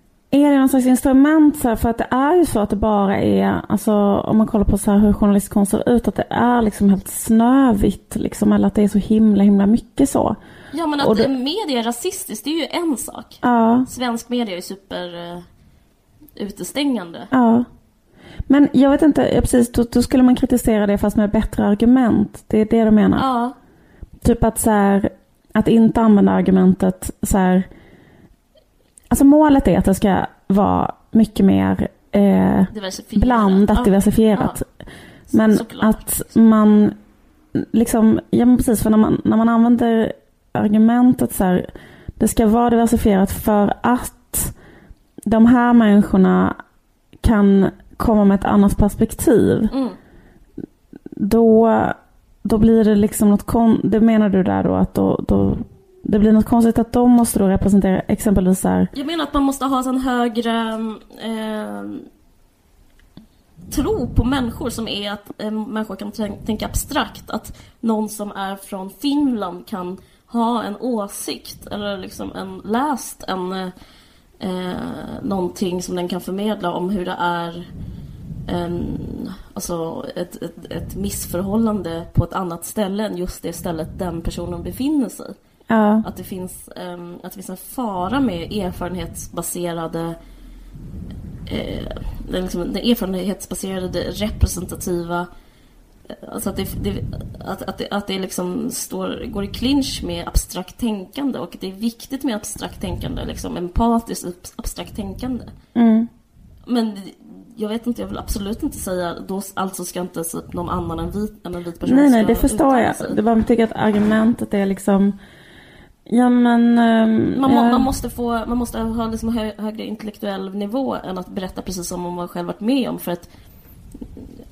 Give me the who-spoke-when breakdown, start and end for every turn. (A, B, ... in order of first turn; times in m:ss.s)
0:00.3-0:10.4 A
0:10.7-0:15.4 B
0:11.0-0:11.3 A
0:13.4-0:13.9 A
0:16.4-0:17.3 B
0:17.3-0:17.7 A
0:18.5-0:23.2 A
0:23.2-0:23.6 B
0:24.2-0:27.7 A
0:29.1-0:34.7 A
0:32.7-0:34.6 B
0:35.3-0:36.1 B
0:35.3-0:37.0 A
0:37.5-0:44.5 A
0:45.2-0:46.6 A
0:47.2-0:49.7 A
0:49.7-0:50.0 B
0:51.2-0:58.9 A
0:58.9-1:02.1 B
1:03.7-1:13.7 B
1:14.4-1:17.7 B
1:18.5-1:25.4 B
1:25.7-1:26.0 A
1:26.0-1:30.2 B
1:31.5-1:35.3 B
1:36.1-1:45.5 B
1:45.7-1:46.1 A
1:46.6-1:53.2 B
1:51.8-1:55.2 A
1:56.1-1:57.9 A
1:57.3-2:03.3 B